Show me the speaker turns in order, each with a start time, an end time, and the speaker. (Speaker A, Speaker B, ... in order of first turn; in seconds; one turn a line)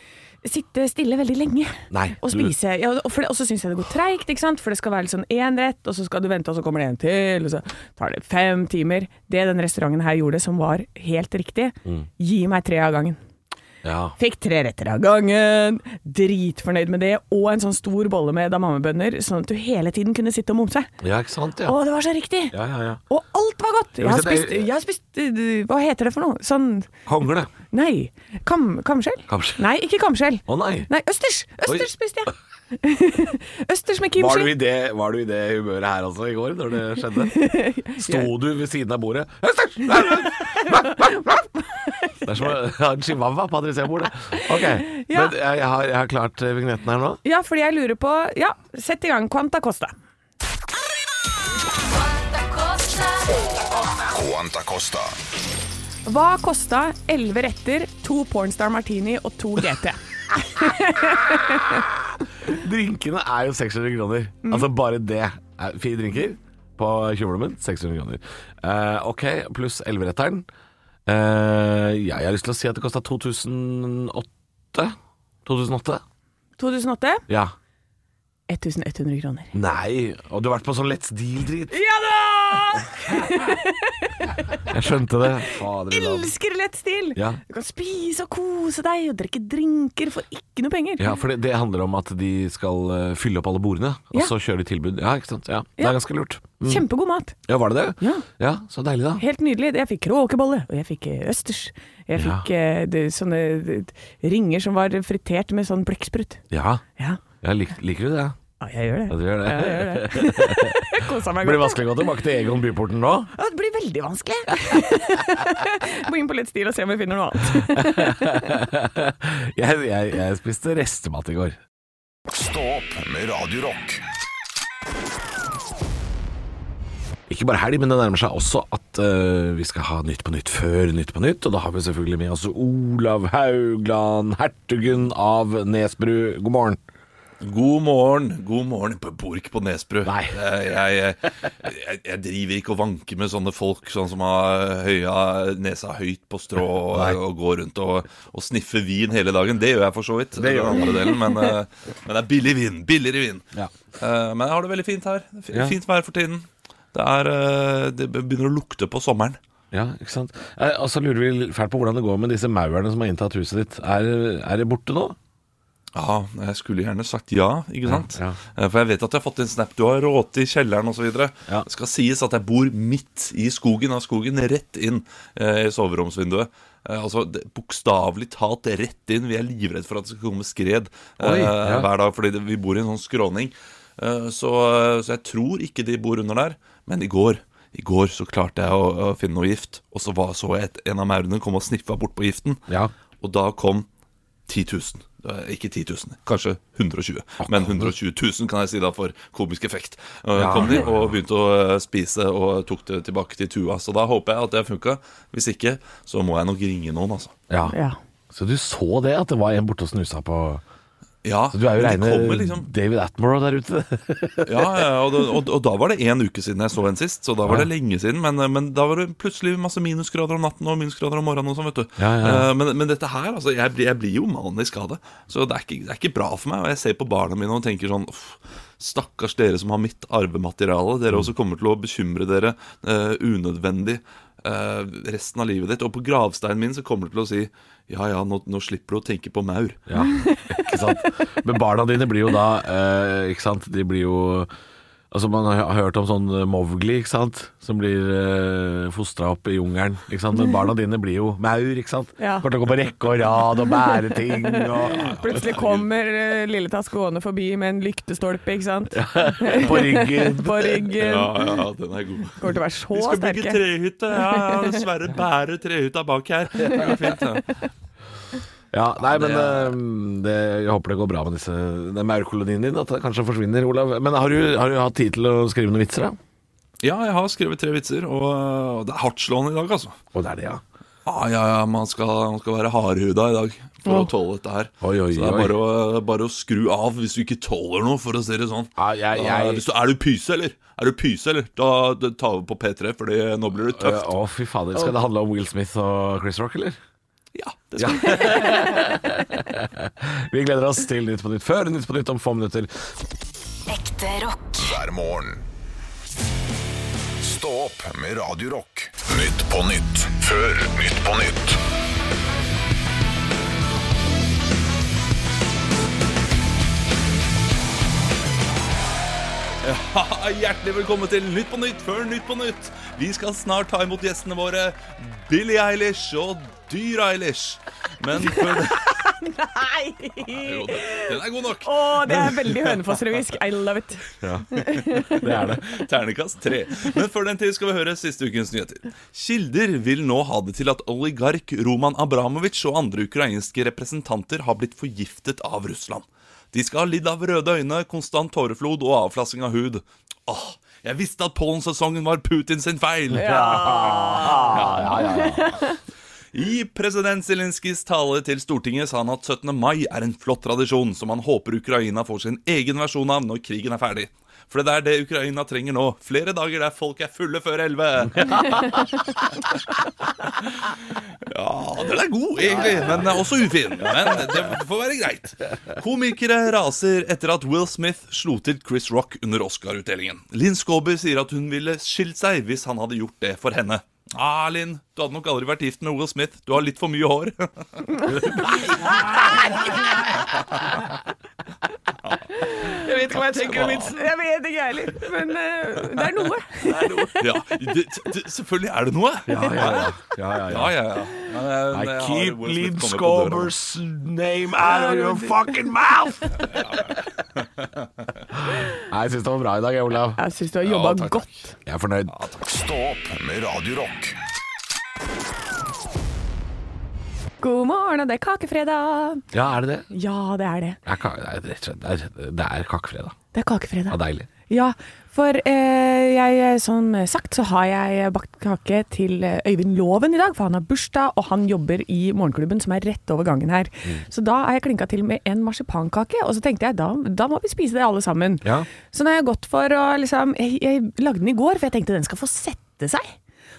Speaker A: 0.4-13.2
Speaker B: 1.9-2.5
Speaker B: 13.8-14.1
Speaker A: 14.2-20.9
Speaker B: 21.0-21.8
Speaker A: 21.6-22.6
Speaker B: 22.5-23.0
Speaker A: 23.1-27.0
Speaker B: 24.0-24.7
Speaker B: 27.1-27.5
Speaker A: 27.6-34.5
Speaker B: 29.3-29.6
Speaker B: 30.4-30.9
Speaker B: 34.2-41.5
Speaker A: 37.3-38.3
Speaker A: 40.0-42.5
Speaker B: 42.2-47.2
Speaker A: 44.3-45.3
Speaker A: 47.2-49.9
Speaker C: 52.1-53.4
Speaker D: 54.1-55.2
Speaker A: 56.0-61.9
Speaker B: 62.4-70.5
Speaker B: 71.0-76.0
Speaker A: 76.6-77.2
Speaker B: 77.3-77.5
Speaker A: 78.5-79.5
Speaker B: 79.5-81.8
Speaker A: 81.7-84.6
Speaker B: 84.6-86.3
Speaker A: 85.4-91.1
Speaker B: 91.0-96.8
Speaker A: 96.6-97.4
Speaker B: 97.5-99.2
Speaker A: 98.0-98.2
Speaker A: 99.2-106.4
Speaker B: 102.2-102.5
Speaker B: 106.5-106.8
Speaker B: 107.4-108.3
Speaker A: 108.6-112.0
Speaker B: 109.1-113.3
Speaker A: 113.3-118.5
Speaker B: 117.5-121.6
Speaker D: 122.3-124.0
Speaker B: 127.3-136.8
Speaker E: 137.4-153.5
Speaker B: 140.0-140.4
Speaker B: 146.9-147.2
Speaker B: 150.3-151.1
Speaker E: 154.0-159.4
Speaker B: 159.7-165.2
Speaker E: 165.9-192.6
Speaker B: 167.9-168.4
Speaker B: 181.2-181.9
Speaker E: 193.2-193.9
Speaker E: 194.5-207.3
Speaker B: 197.4-197.9
Speaker B: 200.3-201.1
Speaker B: 207.5-207.8
Speaker A: 207.7-208.0
Speaker B: 208.3-210.6
Speaker E: 211.2-212.7
Speaker B: 211.5-214.9
Speaker E: 214.4-239.8
Speaker B: 222.0-222.5
Speaker B: 239.9-244.5
Speaker A: 240.1-240.7
Speaker B: 245.1-255.2
Speaker A: 252.2-252.5
Speaker A: 253.7-261.4
Speaker E: 254.9-255.8
Speaker B: 258.9-260.9
Speaker E: 261.0-267.6
Speaker A: 262.4-263.6
Speaker A: 264.2-264.7
Speaker B: 268.7-276.2
Speaker E: 269.0-269.8
Speaker E: 276.8-280.0
Speaker B: 280.1-280.6
Speaker E: 281.1-294.1
Speaker B: 284.8-285.6
Speaker B: 288.8-289.6
Speaker B: 293.7-296.8
Speaker E: 297.3-298.8
Speaker B: 297.8-302.8
Speaker C: 303.7-304.5
Speaker D: 304.6-305.4
Speaker D: 307.2-311.6
Speaker E: 319.6-328.9
Speaker A: 328.2-335.2
Speaker E: 330.3-333.0
Speaker B: 334.2-335.7
Speaker E: 334.8-355.0
Speaker B: 353.1-355.6
Speaker A: 353.2-355.7
Speaker E: 356.3-369.4
Speaker E: 371.2-387.9
Speaker B: 372.5-373.0
Speaker B: 388.1-390.9
Speaker A: 388.1-389.3
Speaker E: 389.4-389.8
Speaker B: 392.6-394.1
Speaker E: 393.3-393.9
Speaker A: 393.8-397.2
Speaker B: 396.6-397.3
Speaker E: 397.2-399.9
Speaker B: 399.3-400.8
Speaker E: 400.5-403.5
Speaker B: 401.7-406.5
Speaker A: 404.6-405.7
Speaker E: 406.5-407.6
Speaker B: 408.3-410.2
Speaker A: 410.2-411.5
Speaker E: 410.6-411.2
Speaker B: 411.6-412.2
Speaker D: 412.4-414.2
Speaker A: 417.4-419.2
Speaker B: 419.3-419.9
Speaker A: 419.9-420.8
Speaker B: 420.9-423.1
Speaker A: 423.3-443.1
Speaker B: 423.9-424.3